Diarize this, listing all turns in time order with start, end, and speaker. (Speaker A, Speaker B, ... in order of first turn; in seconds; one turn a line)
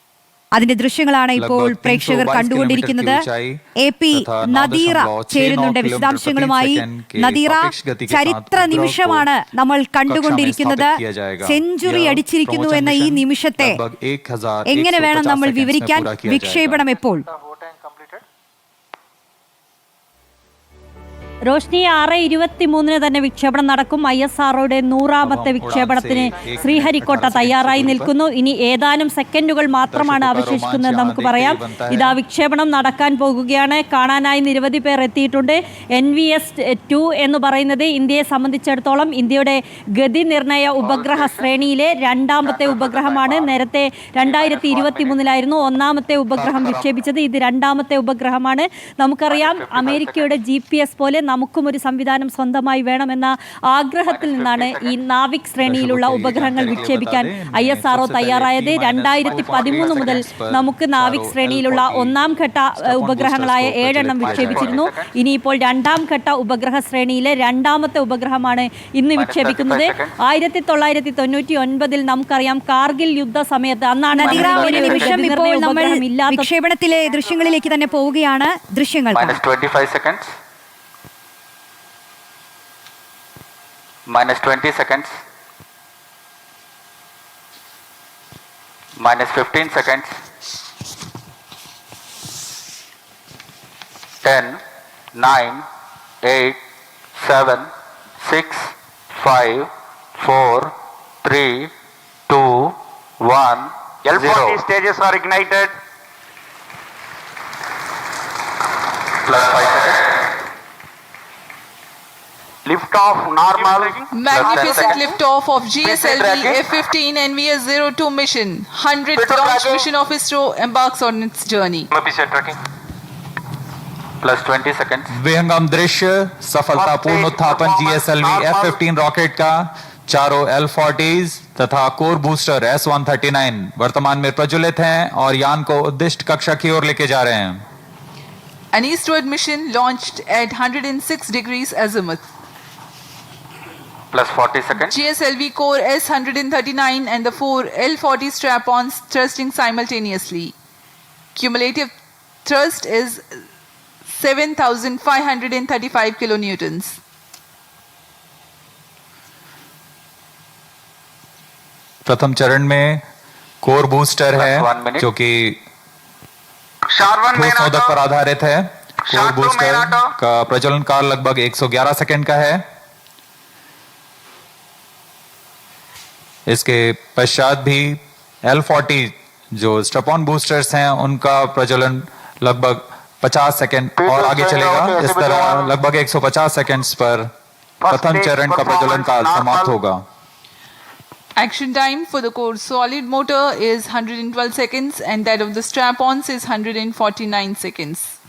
Speaker A: 0.5-3.2
Speaker B: 1.4-9.3
Speaker A: 3.8-13.8
Speaker B: 10.1-16.8
Speaker A: 14.7-17.3
Speaker C: 21.4-76.5
Speaker B: 25.2-28.1
Speaker B: 29.9-32.2
Speaker D: 40.8-41.5
Speaker D: 42.4-43.5
Speaker D: 44.2-45.1
Speaker D: 46.4-46.9
Speaker D: 49.3-50.4
Speaker D: 54.1-55.0
Speaker B: 55.6-64.9
Speaker D: 56.4-57.0
Speaker D: 59.2-60.1
Speaker D: 64.2-65.1
Speaker D: 69.1-70.1
Speaker A: 74.1-79.3
Speaker D: 74.2-75.2
Speaker D: 79.1-80.3
Speaker D: 84.1-85.2
Speaker D: 89.0-90.2
Speaker D: 94.2-94.6
Speaker D: 95.1-95.6
Speaker D: 96.2-96.6
Speaker D: 97.2-97.7
Speaker D: 98.2-101.7
Speaker D: 102.3-104.6
Speaker E: 104.0-105.7
Speaker D: 109.2-110.0
Speaker E: 112.6-115.0
Speaker F: 114.1-121.9
Speaker D: 114.3-115.0
Speaker E: 115.8-116.5
Speaker D: 116.2-116.5
Speaker E: 119.2-119.9
Speaker D: 122.0-122.5
Speaker D: 124.2-125.1
Speaker B: 125.1-137.6
Speaker E: 126.7-128.8
Speaker F: 138.7-142.2
Speaker D: 144.1-144.9
Speaker F: 144.7-150.5
Speaker F: 151.3-151.9
Speaker F: 152.4-153.2
Speaker F: 154.1-157.0
Speaker B: 162.1-163.0
Speaker B: 163.6-165.6
Speaker D: 164.3-165.1
Speaker E: 166.9-167.9
Speaker B: 167.3-172.6
Speaker E: 169.1-170.1
Speaker B: 176.5-187.3
Speaker E: 184.0-185.7
Speaker E: 187.8-189.7
Speaker B: 187.8-190.0
Speaker F: 191.4-198.2